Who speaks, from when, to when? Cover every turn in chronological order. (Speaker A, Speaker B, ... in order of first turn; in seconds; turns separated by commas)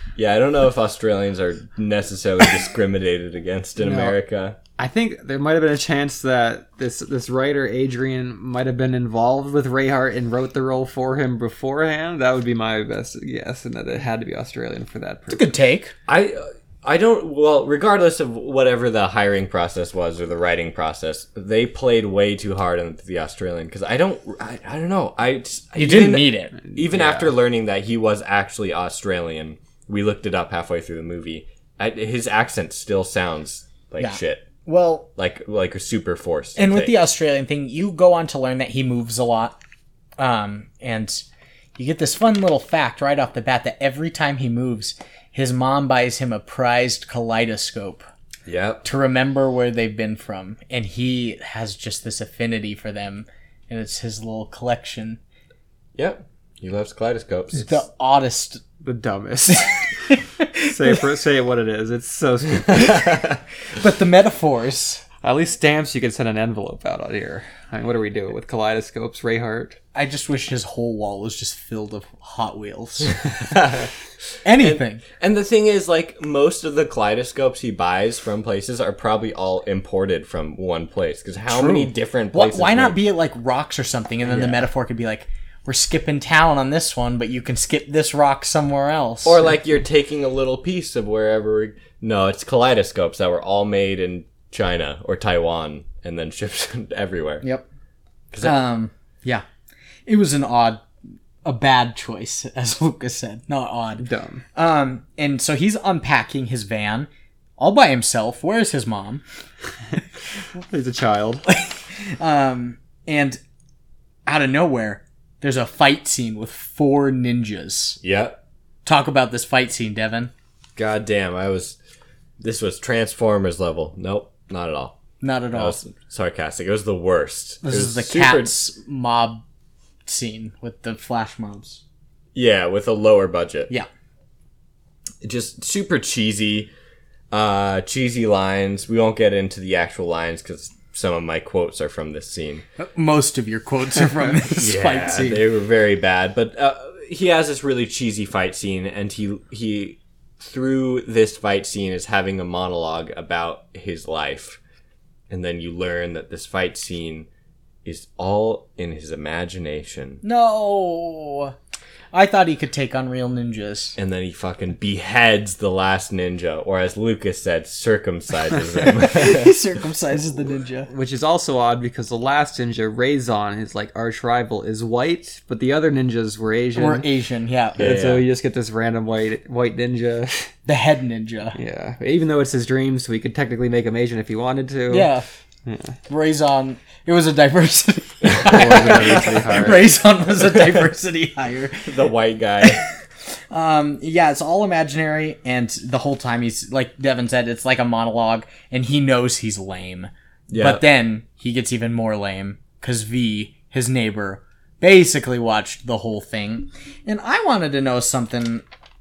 Speaker A: 0.1-4.6, Speaker B: 3.8-4.2, Speaker B: 4.8-15.6, Speaker C: 15.3-15.9, Speaker A: 16.1-34.5, Speaker C: 25.8-26.5, Speaker B: 26.6-27.3, Speaker C: 34.0-35.1, Speaker A: 35.2-37.0, Speaker C: 36.6-39.6, Speaker C: 40.2-41.2, Speaker C: 41.8-48.1, Speaker A: 48.5-48.9, Speaker C: 48.8-55.2, Speaker A: 56.0-57.8, Speaker C: 57.5-58.6, Speaker B: 58.8-59.8, Speaker C: 59.5-60.7, Speaker B: 60.6-63.1, Speaker C: 63.8-65.0, Speaker B: 65.2-69.8, Speaker C: 69.9-73.2, Speaker A: 73.4-73.9, Speaker C: 74.4-75.0, Speaker A: 74.6-83.0, Speaker C: 81.5-89.4, Speaker A: 89.2-97.4, Speaker A: 98.3-98.6, Speaker C: 98.4-99.4, Speaker C: 100.1-100.8, Speaker C: 101.4-109.2, Speaker B: 104.0-104.4, Speaker B: 110.6-111.4, Speaker C: 111.5-113.4, Speaker C: 114.2-118.0, Speaker A: 118.0-118.4, Speaker C: 118.8-120.3, Speaker A: 120.8-121.8, Speaker A: 122.4-125.0, Speaker C: 125.2-125.8, Speaker A: 125.5-128.5, Speaker C: 127.6-129.4, Speaker C: 130.1-131.8, Speaker A: 132.3-133.7, Speaker A: 135.2-136.7, Speaker A: 137.3-142.6, Speaker C: 142.8-145.4, Speaker A: 144.6-154.6, Speaker A: 155.3-157.3, Speaker A: 157.8-160.2, Speaker C: 160.2-161.5, Speaker C: 162.1-164.0, Speaker A: 164.0-169.5, Speaker C: 168.9-170.9, Speaker B: 170.9-177.1, Speaker C: 176.8-177.8, Speaker B: 177.8-180.5, Speaker A: 177.8-178.2, Speaker C: 180.7-181.6, Speaker B: 181.6-185.1, Speaker C: 184.9-185.2, Speaker B: 185.7-186.0, Speaker C: 186.1-191.9, Speaker A: 188.3-189.2, Speaker B: 188.4-189.9, Speaker A: 191.8-192.8, Speaker C: 193.5-208.6, Speaker A: 200.5-200.8